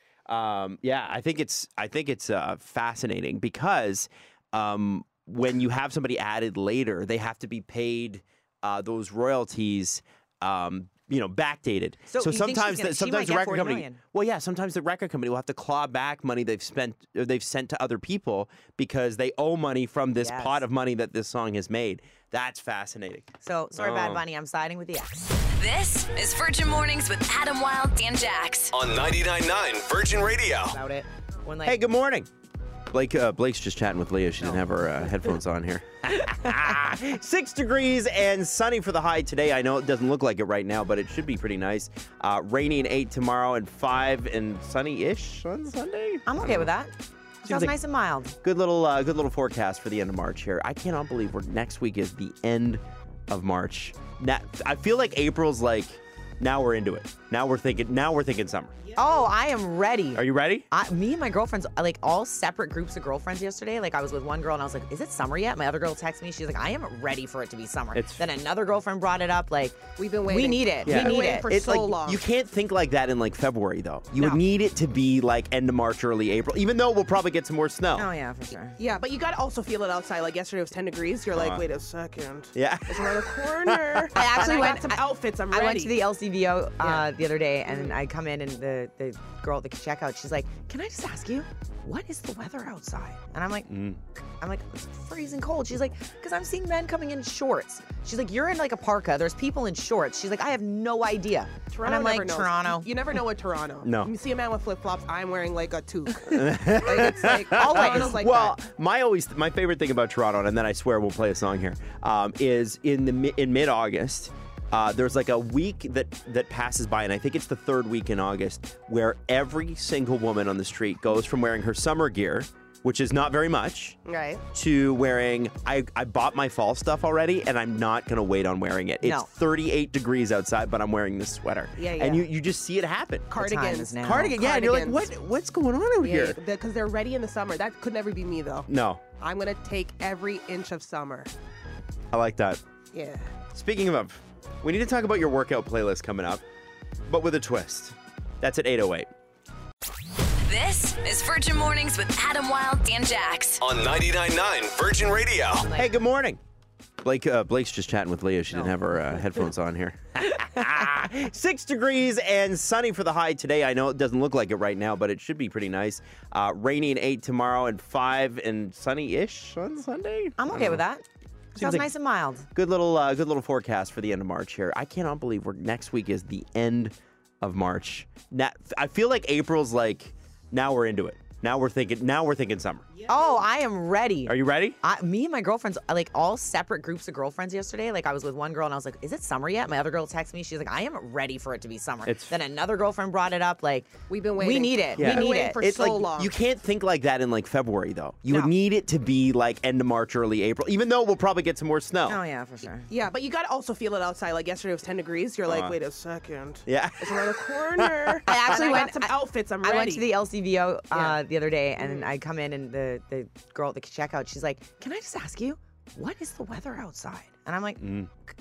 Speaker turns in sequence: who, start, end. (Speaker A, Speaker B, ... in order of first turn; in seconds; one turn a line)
Speaker A: 0.3-24.2
Speaker B: 12.1-14.0
Speaker B: 20.2-20.6
Speaker B: 23.4-25.3
Speaker C: 25.4-28.7
Speaker D: 28.7-30.8
Speaker B: 30.7-31.8
Speaker A: 31.6-32.3
Speaker A: 32.9-46.7
Speaker B: 34.4-34.7
Speaker B: 46.2-48.4
Speaker A: 47.5-47.8
Speaker A: 48.4-58.8
Speaker B: 58.9-71.5
Speaker A: 60.1-60.7
Speaker A: 67.9-68.2
Speaker E: 70.0-72.2
Speaker A: 70.9-78.1
Speaker B: 77.9-78.8
Speaker E: 78.8-85.9
Speaker A: 81.3-81.6
Speaker A: 82.5-84.7
Speaker B: 84.1-93.7
Speaker E: 86.8-87.1
Speaker E: 87.7-88.0
Speaker A: 93.7-94.0
Speaker B: 94.4-102.9
Speaker E: 101.7-108.5
Speaker A: 103.8-104.1
Speaker A: 106.3-124.0
Speaker B: 107.5-108.2
Speaker E: 124.0-124.4
Speaker A: 124.5-133.3
Speaker B: 129.0-129.3
Speaker E: 131.8-132.2
Speaker E: 133.3-135.1
Speaker B: 133.3-134.4
Speaker A: 134.0-136.4
Speaker E: 136.0-138.7
Speaker A: 138.7-139.0
Speaker E: 139.2-141.3
Speaker A: 142.1-142.6
Speaker E: 142.9-143.3
Speaker A: 143.5-146.4
Speaker A: 147.1-149.1
Speaker C: 150.4-153.6
Speaker D: 153.6-155.7
Speaker B: 155.6-155.9
Speaker A: 155.7-156.4
Speaker A: 157.0-170.8
Speaker B: 158.5-158.8
Speaker B: 170.4-171.0
Speaker B: 171.6-172.5
Speaker A: 171.6-171.9
Speaker A: 172.5-182.9
Speaker B: 183.1-195.6
Speaker A: 184.3-184.8
Speaker A: 192.0-192.3
Speaker E: 194.1-196.3
Speaker A: 195.0-202.2
Speaker B: 202.1-202.9
Speaker E: 202.9-210.1
Speaker A: 205.5-205.8
Speaker A: 206.7-208.8
Speaker B: 208.2-217.9
Speaker E: 210.9-211.2
Speaker E: 211.8-212.1
Speaker A: 217.8-218.1